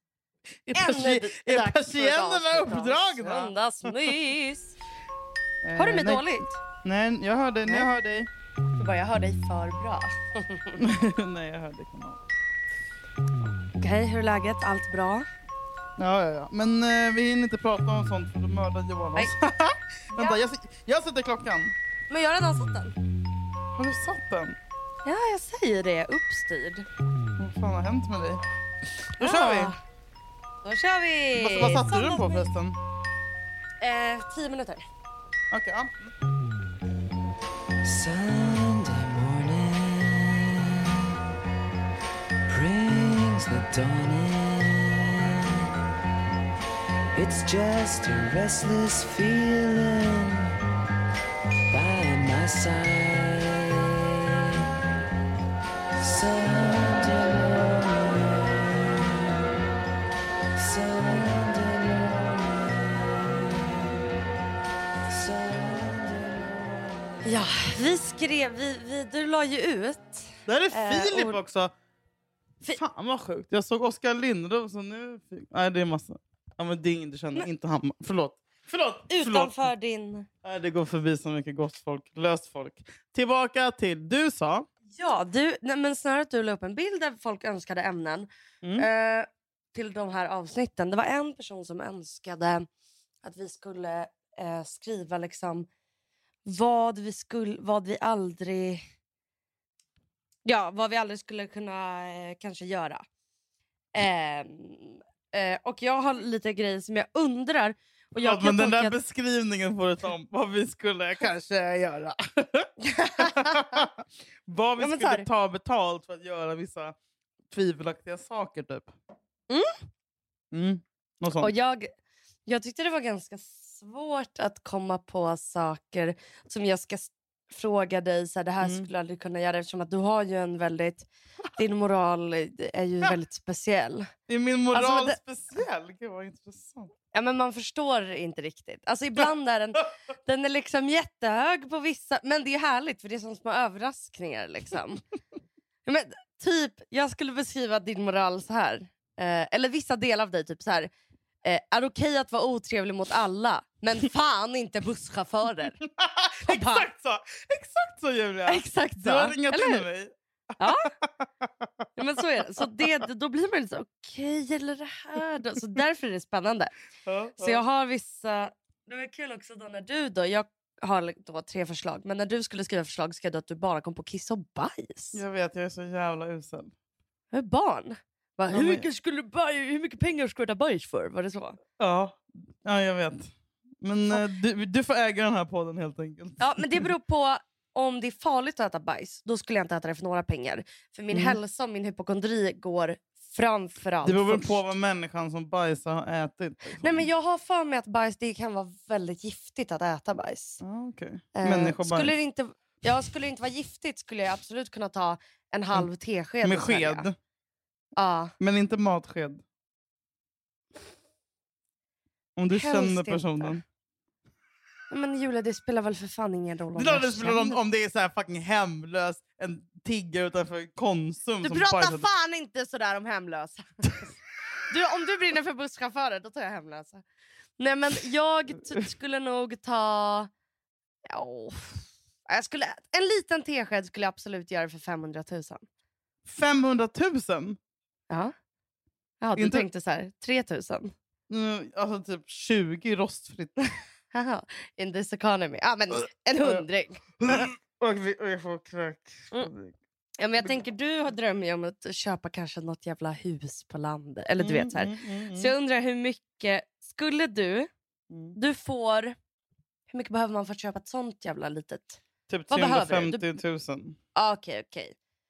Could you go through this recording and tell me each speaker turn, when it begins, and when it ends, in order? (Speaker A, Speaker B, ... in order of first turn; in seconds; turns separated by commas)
Speaker A: 0.7-4.1, Speaker B: 0.7-4.7, Speaker A: 5.6-6.3, Speaker B: 5.8-6.5, Speaker A: 6.8-8.3, Speaker B: 8.8-10.8, Speaker A: 10.8-12.2, Speaker B: 13.8-15.2, Speaker A: 16.0-21.7, Speaker B: 22.1-22.9, Speaker A: 23.7-24.5, Speaker B: 25.0-26.9, Speaker A: 27.4-28.4, Speaker B: 29.2-29.8, Speaker A: 29.2-29.7, Speaker B: 30.6-32.5, Speaker A: 31.4-32.8, Speaker B: 33.8-34.8, Speaker A: 35.5-36.1, Speaker C: 37.8-41.0, Speaker C: 42.5-45.7, Speaker C: 47.1-50.6, Speaker C: 51.7-54.6, Speaker C: 56.0-59.1, Speaker C: 60.5-62.6, Speaker C: 65.1-66.7, Speaker B: 67.2-71.4, Speaker A: 70.5-71.7, Speaker A: 72.7-79.5, Speaker B: 79.1-80.3, Speaker A: 80.4-84.7, Speaker B: 84.9-92.7, Speaker B: 93.2-95.7, Speaker B: 96.5-98.8, Speaker B: 100.4-103.0, Speaker B: 103.9-109.0, Speaker A: 108.2-116.9, Speaker B: 112.8-113.8, Speaker B: 114.8-115.2, Speaker A: 117.5-118.9, Speaker A: 120.5-121.5, Speaker B: 121.3-121.9, Speaker B: 122.5-134.1, Speaker A: 128.6-128.9, Speaker A: 134.3-136.9, Speaker B: 134.7-135.2, Speaker B: 137.1-145.0, Speaker B: 145.8-150.9, Speaker B: 151.4-155.8, Speaker A: 155.8-160.1, Speaker B: 156.4-156.8, Speaker B: 158.5-159.8, Speaker B: 160.6-160.9, Speaker A: 161.0-161.8, Speaker B: 161.9-166.7, Speaker A: 167.0-167.6, Speaker B: 167.4-175.2, Speaker A: 175.1-176.7, Speaker B: 177.3-181.6, Speaker A: 178.5-178.8, Speaker A: 181.8-183.3, Speaker A: 183.8-186.8, Speaker B: 186.4-194.7, Speaker A: 191.1-191.4, Speaker A: 194.0-197.1, Speaker B: 196.8-200.6, Speaker A: 200.6-202.1, Speaker B: 201.3-207.1, Speaker A: 206.4-207.2, Speaker B: 208.0-208.3, Speaker A: 208.4-209.4, Speaker A: 212.3-213.6, Speaker B: 212.5-213.6, Speaker B: 214.9-217.6, Speaker A: 216.8-222.1, Speaker B: 221.4-224.1, Speaker B: 224.7-227.0, Speaker B: 227.6-230.3, Speaker B: 231.1-235.6, Speaker A: 236.2-237.6, Speaker B: 239.2-240.9, Speaker A: 239.3-239.7, Speaker A: 241.3-243.6, Speaker B: 244.1-247.0, Speaker A: 247.2-249.8, Speaker B: 250.2-257.7, Speaker A: 254.4-255.5, Speaker A: 258.1-258.4, Speaker B: 258.3-259.1, Speaker B: 259.9-263.2, Speaker A: 262.3-264.0, Speaker B: 264.1-264.9